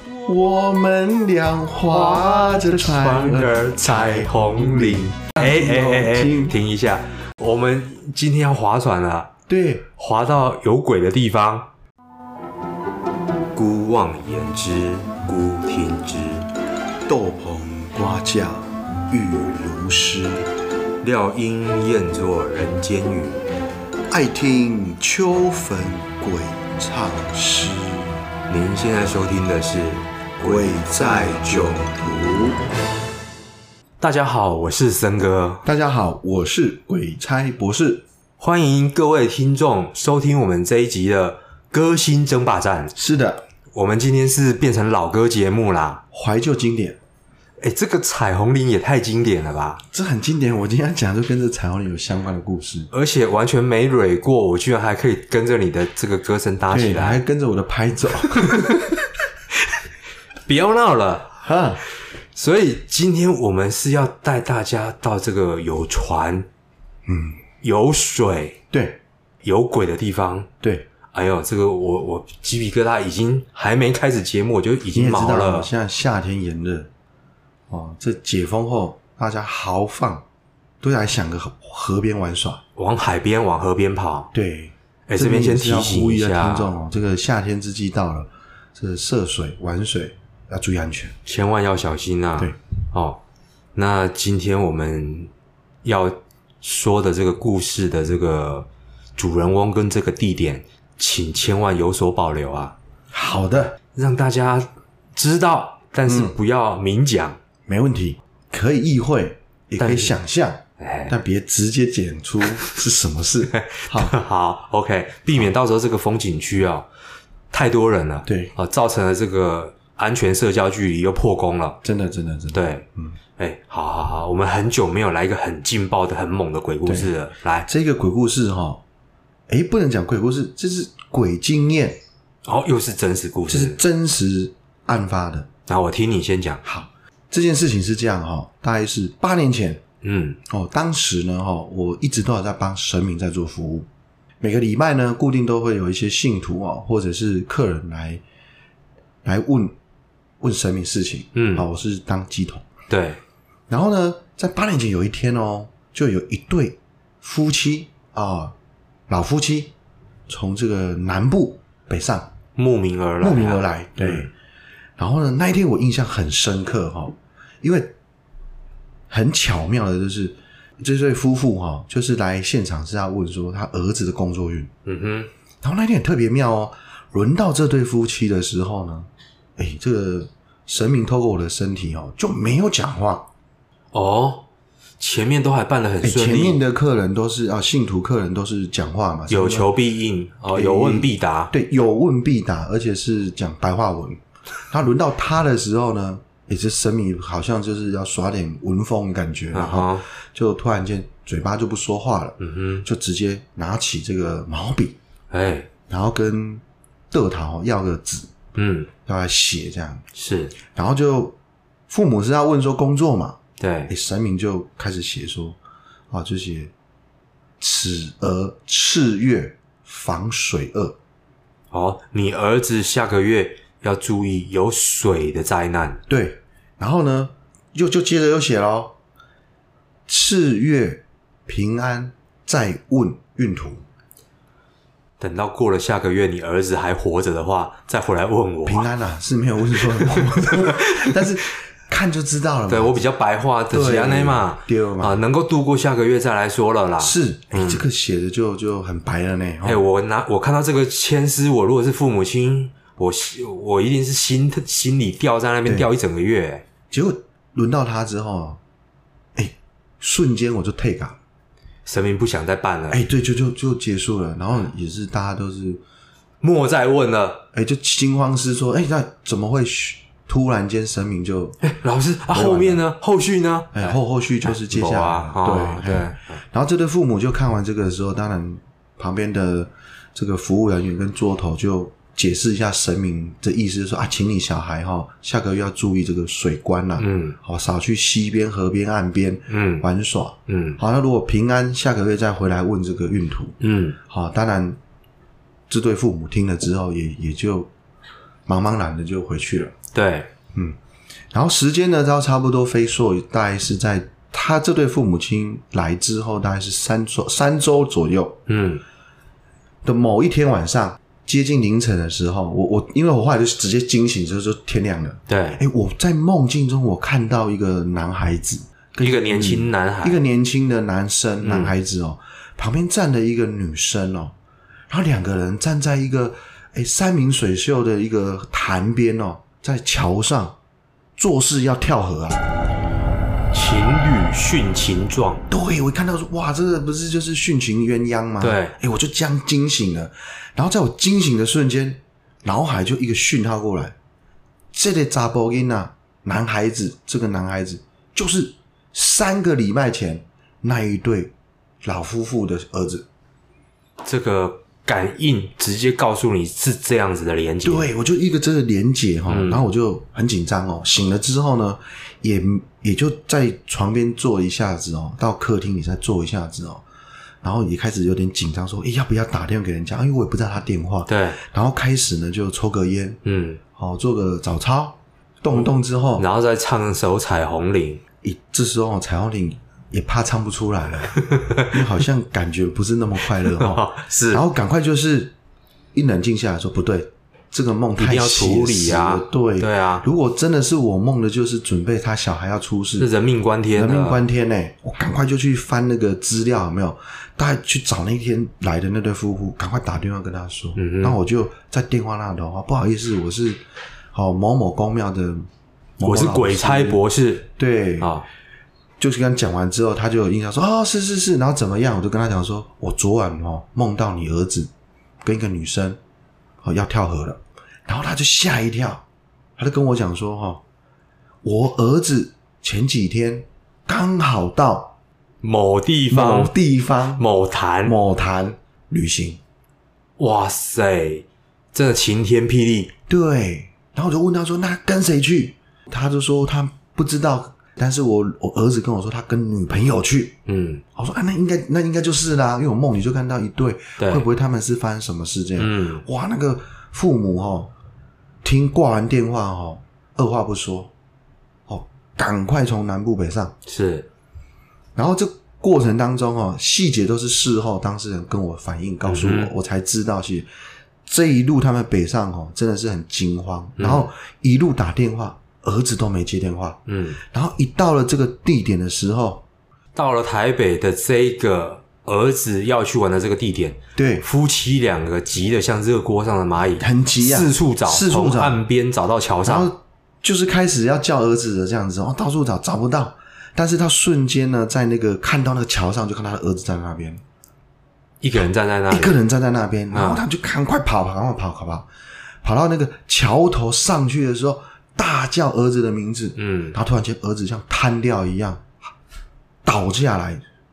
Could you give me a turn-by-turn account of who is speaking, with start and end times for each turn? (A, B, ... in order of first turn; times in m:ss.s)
0:00.2-0:06.6 A
0:01.9-0:09.3 B
0:09.5-0:09.9 A
0:10.0-0:11.7 B
0:13.5-0:16.5 B
0:17.1-0:20.5 A
0:21.0-0:23.5 B
0:24.1-0:28.2 A
0:28.5-0:31.9 B
0:30.4-0:32.6 A
0:34.0-0:35.7 B
0:35.6-0:38.0 A
0:38.4-0:42.9 B
0:43.0-0:43.4 A
0:43.7-0:46.0 B
0:46.1-0:47.0 A
0:47.6-0:49.8 B
0:49.9-0:52.9 A
0:52.9-0:57.2 B
0:56.7-0:58.9 A
0:58.4-0:58.6 B
1:00.5-1:01.4 B
1:01.4-1:01.8 A
1:02.3-1:06.5 B
1:07.1-1:07.4 A
1:07.6-1:08.6 B
1:08.7-1:09.0 A
1:09.4-1:10.5 B
1:10.6-1:10.9 A
1:11.1-1:15.7 B
1:14.9-1:16.9 A
1:17.7-1:20.2 A
1:20.8-1:22.6 A
1:22.8-1:24.3 B
1:24.3-1:31.2 A
1:25.1-1:26.7 B
1:31.3-1:33.2 B
1:33.8-1:35.3 B
1:35.8-1:42.8 B
1:43.1-1:43.8 A
1:43.9-1:47.4 B
1:46.1-1:46.4 A
1:47.7-1:54.2 A
1:49.8-1:50.2 B
1:50.8-1:51.2 B
1:53.5-1:56.9 B
1:57.5-2:01.8 B
1:58.3-1:58.5 A
2:01.8-2:03.2 A
2:02.5-2:02.8 B
2:03.4-2:07.7 B
2:06.8-2:07.1 A
2:07.7-2:08.8 A
2:09.5-2:12.0 A
2:12.4-2:13.8 B
2:13.5-2:15.5 A
2:15.7-2:16.6 B
2:16.6-2:19.8 A
2:20.0-2:20.4 B
2:20.5-2:23.9 A
2:24.4-2:28.2 A
2:29.2-2:29.8 A
2:30.4-2:32.7 A
2:31.4-2:31.7 B
2:32.9-2:33.2 B
2:33.7-2:38.5 A
2:39.1-2:39.7 A
2:40.3-2:42.3 A
2:42.6-2:44.3 B
2:43.2-2:44.3 A
2:45.0-2:47.9 A
2:49.1-2:54.7 A
2:54.9-2:55.3 B
2:55.6-3:03.3 A
3:03.9-3:04.5 B
3:05.0-3:06.6 B
3:06.0-3:09.7 A
3:09.3-3:11.5 B
3:10.5-3:25.0 A
3:19.5-3:20.0 B
3:22.4-3:22.9 B
3:25.3-3:25.7 B
3:25.9-3:28.3 A
3:28.6-3:28.9 B
3:29.1-3:30.0 A
3:30.1-3:30.6 B
3:30.7-3:31.4 A
3:31.9-3:35.6 A
3:33.6-3:33.9 B
3:36.1-3:36.7 A
3:37.6-3:41.0 A
3:41.7-3:46.0 B
3:46.1-3:49.0 A
3:50.1-3:53.8 A
3:55.2-3:58.9 B
3:58.7-4:03.0 A
3:59.8-4:01.2 B
4:02.7-4:07.8 B
4:03.7-4:05.2 A
4:07.0-4:09.8 A
4:09.6-4:16.6 B
4:16.9-4:18.6 A
4:19.4-4:21.2 A
4:21.9-4:23.0 B
4:22.9-4:25.8 A
4:26.4-4:27.4 B
4:27.5-4:31.6 A
4:31.6-4:36.4 B
4:32.3-4:32.8 A
4:33.7-4:54.8 A
4:47.0-4:47.4 B
4:49.5-4:49.9 B
4:50.5-4:50.8 B
4:53.6-4:54.0 B
4:55.7-4:57.7 A
4:58.5-4:59.8 A
4:59.9-5:00.3 B
5:01.3-5:08.4 A
5:08.5-5:08.8 B
5:09.8-5:24.4 A
5:15.3-5:15.6 B
5:19.0-5:20.2 B
5:21.4-5:21.7 B
5:24.9-5:30.6 A
5:31.2-5:32.4 A
5:33.5-5:35.4 B
5:35.5-5:44.0 A
5:38.4-5:38.8 B
5:44.7-5:53.1 A
5:54.0-5:57.9 B
5:57.6-6:06.8 A
5:59.3-5:59.7 B
6:07.4-6:13.2 A
6:11.1-6:11.4 B
6:13.2-6:13.6 B
6:13.8-6:16.3 A
6:16.2-6:18.0 B
6:18.2-6:25.3 A
6:21.2-6:21.8 B
6:23.4-6:24.4 B
6:25.9-6:33.1 A
6:28.0-6:30.1 B
6:33.0-6:34.2 B
6:33.8-6:43.6 A
6:40.8-6:41.2 B
6:44.1-6:47.0 A
6:46.0-6:48.2 B
6:47.6-6:48.1 A
6:49.0-6:54.7 A
6:55.2-6:56.0 A
6:56.6-6:59.0 A
6:59.6-7:00.6 A
7:01.4-7:05.0 A
7:05.4-7:06.5 B
7:06.1-7:07.2 A
7:07.2-7:08.0 B
7:07.8-7:09.4 A
7:10.2-7:12.9 B
7:13.1-7:20.4 A
7:20.5-7:20.8 B
7:21.0-7:27.7 A
7:24.0-7:24.3 B
7:25.6-7:26.0 B
7:28.4-7:30.9 A
7:31.7-7:33.6 A
7:33.7-7:34.1 B
7:35.0-7:40.5 A
7:39.0-7:39.5 B
7:41.1-7:49.4 A
7:43.8-7:44.1 B
7:46.9-7:47.2 B
7:50.0-7:59.7 B
7:54.0-7:54.2 A
7:56.8-7:58.6 A
7:59.4-8:07.2 A
8:08.2-8:09.2 B
8:08.9-8:11.9 A
8:09.9-8:10.2 B
8:12.4-8:18.8 A
8:16.4-8:16.8 B
8:19.6-8:20.4 A